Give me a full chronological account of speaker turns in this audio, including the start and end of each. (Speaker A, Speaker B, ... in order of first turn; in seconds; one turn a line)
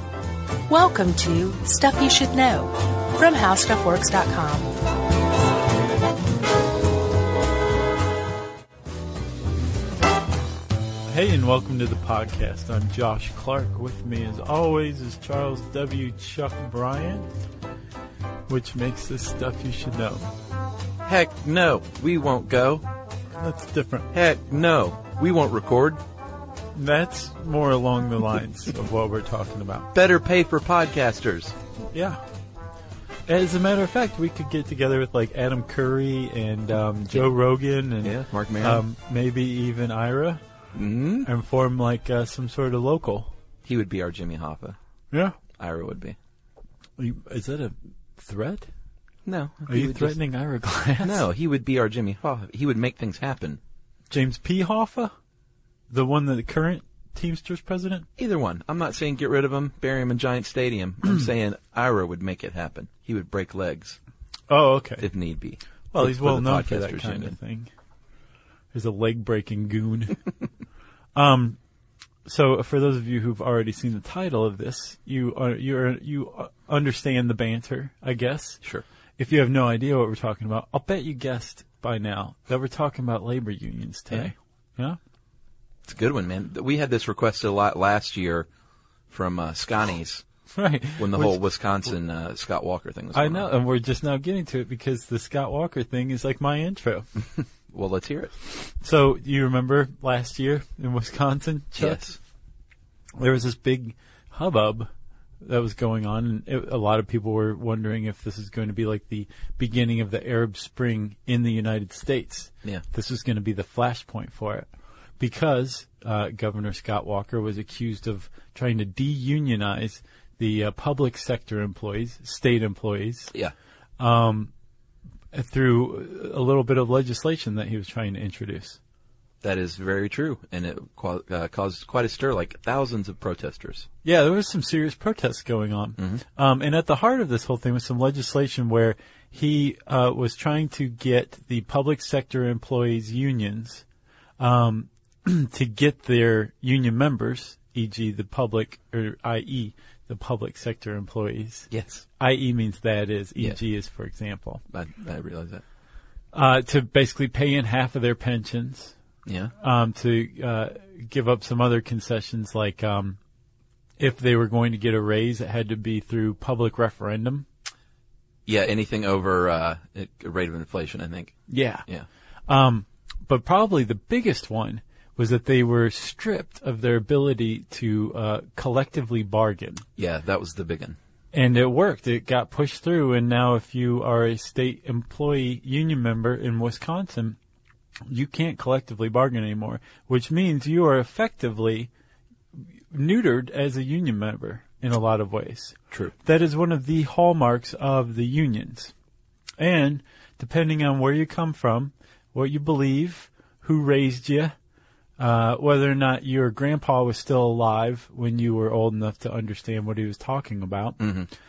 Speaker A: 0.7-4.7
Speaker B: 11.1-17.3
Speaker B: 18.5-20.2
Speaker C: 21.1-22.8
Speaker B: 23.4-24.1
Speaker C: 24.1-26.0
Speaker B: 26.8-29.9
Speaker C: 29.9-31.6
Speaker B: 31.9-32.2
Speaker B: 33.3-40.4
Speaker C: 38.0-38.8
Speaker C: 40.7-41.3
Speaker B: 41.2-43.3
Speaker C: 43.6-44.8
Speaker B: 45.1-45.4
Speaker C: 45.6-46.2
Speaker B: 47.0-48.7
Speaker C: 49.2-50.2
Speaker B: 49.7-51.3
Speaker C: 51.0-53.6
Speaker B: 54.1-55.1
Speaker B: 55.9-58.1
Speaker C: 58.2-64.0
Speaker B: 64.5-65.1
Speaker C: 65.0-67.4
Speaker B: 65.9-67.7
Speaker B: 68.7-70.2
Speaker B: 71.2-71.6
Speaker B: 72.3-78.6
Speaker B: 79.2-85.0
Speaker C: 85.8-88.5
Speaker C: 89.1-90.2
Speaker B: 90.5-91.4
Speaker C: 91.0-93.5
Speaker B: 93.1-97.1
Speaker C: 97.7-98.3
Speaker B: 98.5-102.1
Speaker C: 101.8-102.2
Speaker B: 103.2-104.9
Speaker B: 105.4-114.7
Speaker B: 115.2-123.3
Speaker B: 124.0-124.5
Speaker B: 125.3-128.8
Speaker C: 129.4-133.9
Speaker B: 134.0-143.8
Speaker B: 144.4-151.7
Speaker C: 151.7-152.1
Speaker B: 152.2-154.6
Speaker C: 154.7-155.6
Speaker B: 156.3-158.9
Speaker C: 159.2-159.5
Speaker B: 159.6-163.2
Speaker B: 164.0-167.5
Speaker C: 168.5-172.1
Speaker B: 171.5-171.8
Speaker B: 172.5-179.8
Speaker C: 180.0-181.0
Speaker B: 181.3-187.4
Speaker B: 188.1-191.9
Speaker B: 192.9-198.9
Speaker B: 199.6-204.6
Speaker B: 205.2-211.0
Speaker C: 211.0-211.3